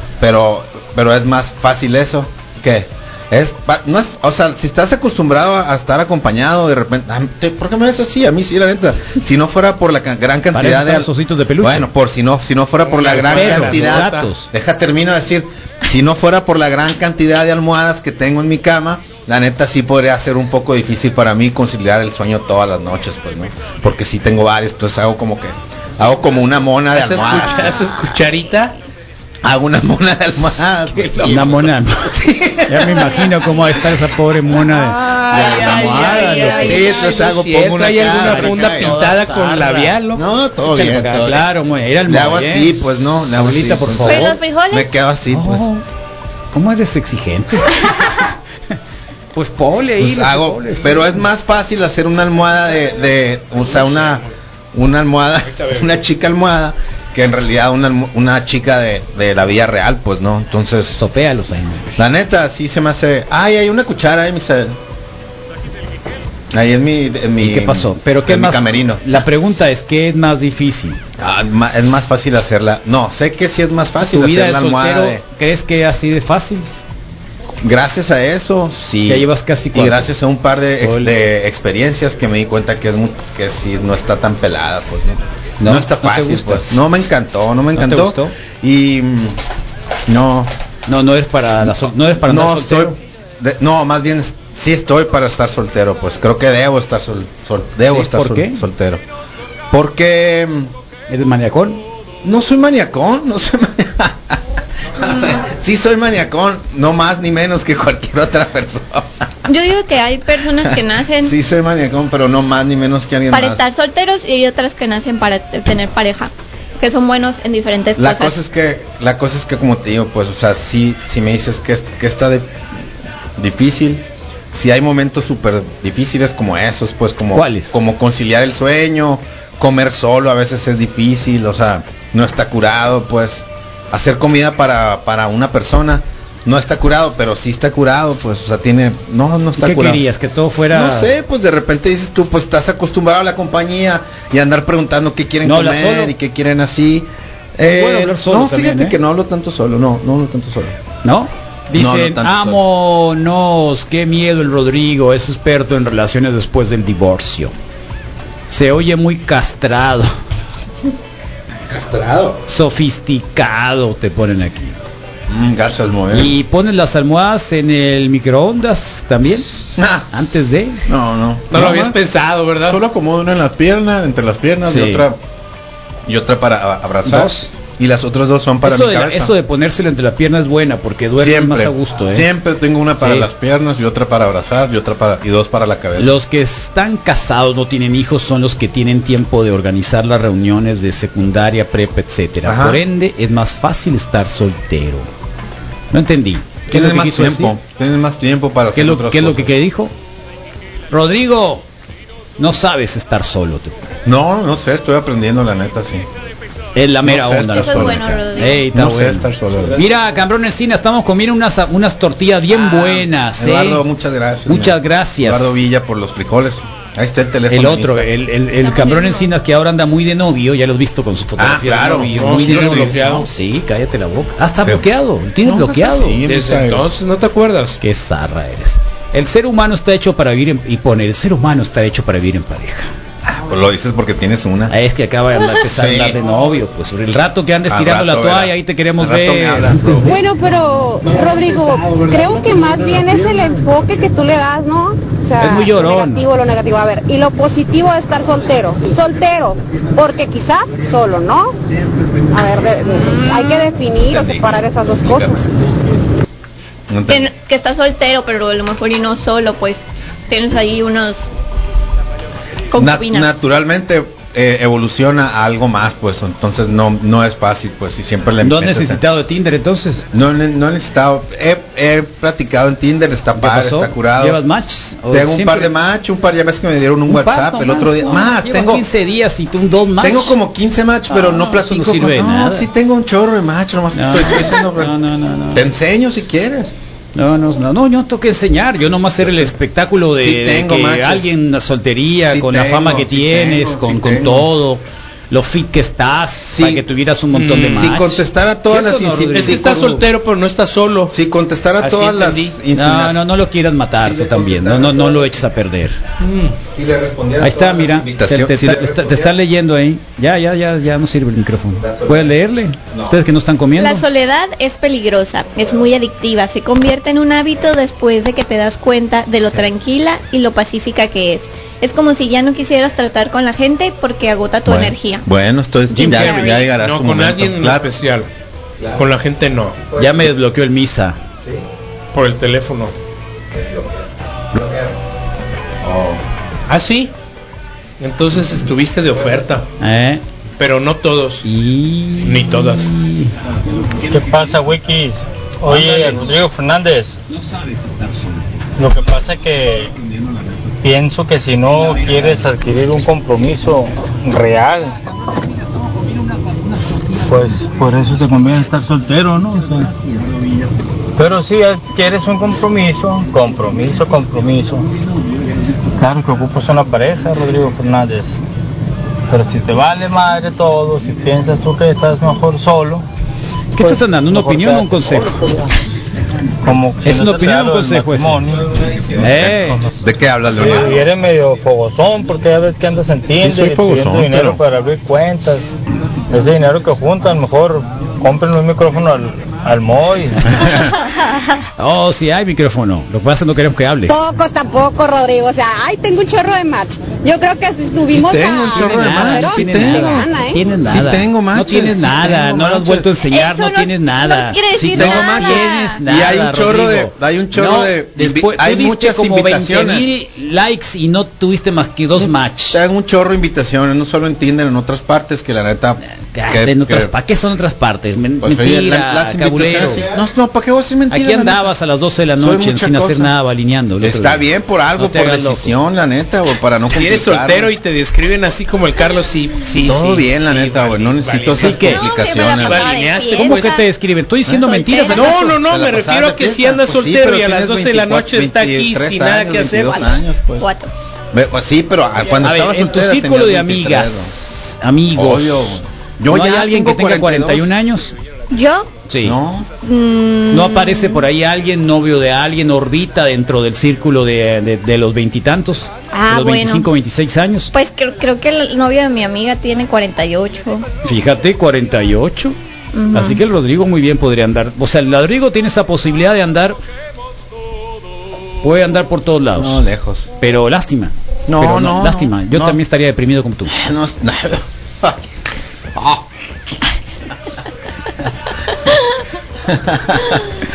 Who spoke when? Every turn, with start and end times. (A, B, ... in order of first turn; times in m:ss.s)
0:00.2-0:27.9 A
0:10.5-0:11.9 B
0:12.8-0:14.3 C
0:13.3-0:14.5 B
0:26.9-0:28.7 C
0:29.4-0:33.4 A
0:31.2-0:36.9 B
0:35.1-0:37.0 D
0:35.3-0:39.0 A
0:35.8-0:40.2 C
0:38.1-0:39.9 B
0:40.1-0:41.4 A
0:40.6-0:42.8 B
0:42.0-0:45.7 A
0:43.3-0:44.4 B
0:44.0-0:44.9 D
0:45.3-0:45.8 B
0:46.5-0:48.3 B
0:49.3-0:51.2 B
0:50.0-1:01.0 A
0:52.7-0:54.3 C
0:55.4-0:55.9 C
1:01.0-1:02.0 B
1:02.0-1:04.8 A
1:06.5-1:09.2 A
1:07.4-1:11.0 B
1:11.2-1:15.2 A
1:14.0-1:16.7 B
1:17.6-1:29.4 A
1:19.1-1:20.1 B
1:20.8-1:21.1 B
1:25.6-1:26.7 B
1:27.7-1:28.3 B
1:30.1-1:30.5 A
1:30.9-1:33.0 B
1:31.6-1:39.0 A
1:37.9-1:38.6 B
1:39.7-1:40.7 A
1:41.1-1:41.8 B
1:42.2-1:44.4 A
1:45.0-1:49.2 A
1:49.4-1:51.3 D
1:50.6-1:53.6 A
1:53.3-1:58.4 D
1:58.0-2:02.5 A
2:03.4-2:20.0 A
2:07.3-2:07.8 B
2:19.6-2:21.1 B
2:20.7-2:30.8 A
2:25.4-2:26.1 B
2:27.6-2:29.0 B
2:31.0-2:37.5 B
2:31.7-2:32.6 A
2:38.5-2:40.1 B
2:41.7-2:42.4 A
2:42.5-2:44.8 B
2:45.3-2:46.3 A
2:46.1-2:50.8 B
2:49.8-2:50.1 A
2:50.8-2:52.0 A
2:51.5-2:52.8 C
2:52.6-2:55.2 A
2:54.7-2:55.0 B
2:56.1-2:59.3 A
2:57.0-2:57.5 B
2:58.6-3:02.3 B
3:01.2-3:06.1 A
3:03.0-3:03.3 B
3:06.0-3:15.1 B
3:12.4-3:12.8 A
3:15.9-3:17.5 B
3:16.7-3:19.5 A
3:18.8-3:19.9 B
3:20.9-3:21.6 B
3:22.4-3:23.7 B
3:24.0-3:26.1 A
3:26.8-3:33.8 B
3:27.0-3:29.8 A
3:27.6-3:28.6 D
3:32.5-3:38.1 A
3:34.5-3:35.6 B
3:37.5-3:46.2 B
3:38.6-3:39.3 D
3:41.4-3:43.0 A
3:42.1-3:43.3 C
3:45.4-3:46.9 A
3:46.2-3:47.8 C
3:47.8-3:52.9 B
3:53.3-3:54.7 A
3:54.7-4:00.1 B
3:55.7-3:56.2 A
3:57.7-4:00.2 A
4:00.0-4:11.5 E
4:05.4-4:06.2 B
4:12.3-4:15.5 E
4:14.0-4:15.7 A
4:16.9-4:17.3 A
4:17.1-4:21.2 D
4:22.7-4:23.3 D
4:22.8-4:29.0 A
4:28.4-4:30.0 B
4:30.1-4:34.4 A
4:33.4-4:35.7 B
4:35.1-4:38.8 A
4:37.1-4:40.3 B
4:40.0-4:44.9 A
4:41.1-4:42.7 B
4:43.9-4:45.7 B
4:45.5-4:46.7 A
4:47.1-5:00.0 B
4:50.2-4:51.3 A
4:52.2-4:54.5 A
4:56.5-4:56.8 A
4:57.3-4:57.9 C
4:57.6-4:59.9 A
4:59.3-5:01.1 C
5:01.1-5:03.2 A
5:01.8-5:02.6 C
5:02.7-5:06.0 B
5:04.0-5:05.5 A
5:06.2-5:06.6 C
5:06.6-5:09.4 A
5:07.4-5:14.0 B
5:11.8-5:12.3 A
5:12.9-5:13.2 A
5:13.8-5:25.2 D
5:19.4-5:19.7 A
5:24.6-5:27.9 A
5:25.9-5:26.4 B
5:26.0-5:26.7 D
5:26.7-5:28.3 C
5:28.8-5:29.1 A
5:29.0-5:29.7 C
5:29.7-5:30.3 A
5:30.0-5:31.2 B
5:32.1-5:32.9 C
5:33.5-5:35.0 A
5:35.8-5:36.2 A
5:36.7-5:37.1 C
5:38.0-5:39.7 C
5:39.8-5:40.2 B
5:40.6-5:41.4 C
5:41.4-5:43.3 B
5:42.2-5:42.9 C
5:44.0-5:47.2 F
5:45.7-5:46.2 B
5:47.7-5:48.2 B
5:48.8-5:49.9 F
5:50.8-5:54.9 F
5:57.2-5:59.9 F
6:01.2-6:04.9 F
6:06.0-6:08.4 F
6:09.3-6:13.0 F
6:13.8-6:15.5 B
6:13.8-6:15.7 F
6:16.6-6:20.0 F
6:17.0-6:18.4 B
6:19.2-6:19.8 B
6:19.2-6:21.0 A
6:20.5-6:25.7 F
6:23.4-6:24.6 A
6:26.3-6:30.6 F
6:31.8-6:34.1 B
6:34.1-6:40.6 E
6:38.1-6:43.1 A
6:38.7-6:52.8 B
6:43.3-6:46.0 D
6:44.7-6:50.1 A
6:52.2-6:57.1 A
6:56.3-7:00.0 B
6:58.4-7:01.7 A
7:01.1-7:05.8 B
7:02.4-7:03.3 A
7:04.0-7:07.7 A
7:06.9-7:13.8 C
7:09.8-7:12.9 A
7:11.6-7:12.0 B
7:11.8-7:13.8 D
7:13.4-7:15.6 B
7:14.4-7:20.7 A
7:14.7-7:15.3 D
7:15.1-7:20.1 C
7:19.8-7:20.9 D
7:21.3-7:24.3 A
7:22.4-7:28.1 B
7:25.1-7:27.7 A
7:28.5-7:28.9 D
7:29.1-7:29.4 B
7:29.2-7:29.7 A
7:29.8-7:31.3 D
7:30.5-7:37.7 B
7:36.1-7:36.9 D
7:37.7-7:40.8 D
7:41.0-7:42.6 B
7:42.9-7:43.4 D
7:43.1-7:46.8 B
7:48.6-7:49.8 B
7:49.6-7:50.3 A
7:50.4-7:53.7 B
7:51.5-7:52.8 A
7:53.7-7:55.2 A
7:56.0-7:56.2 A
7:59.7-8:00.4 A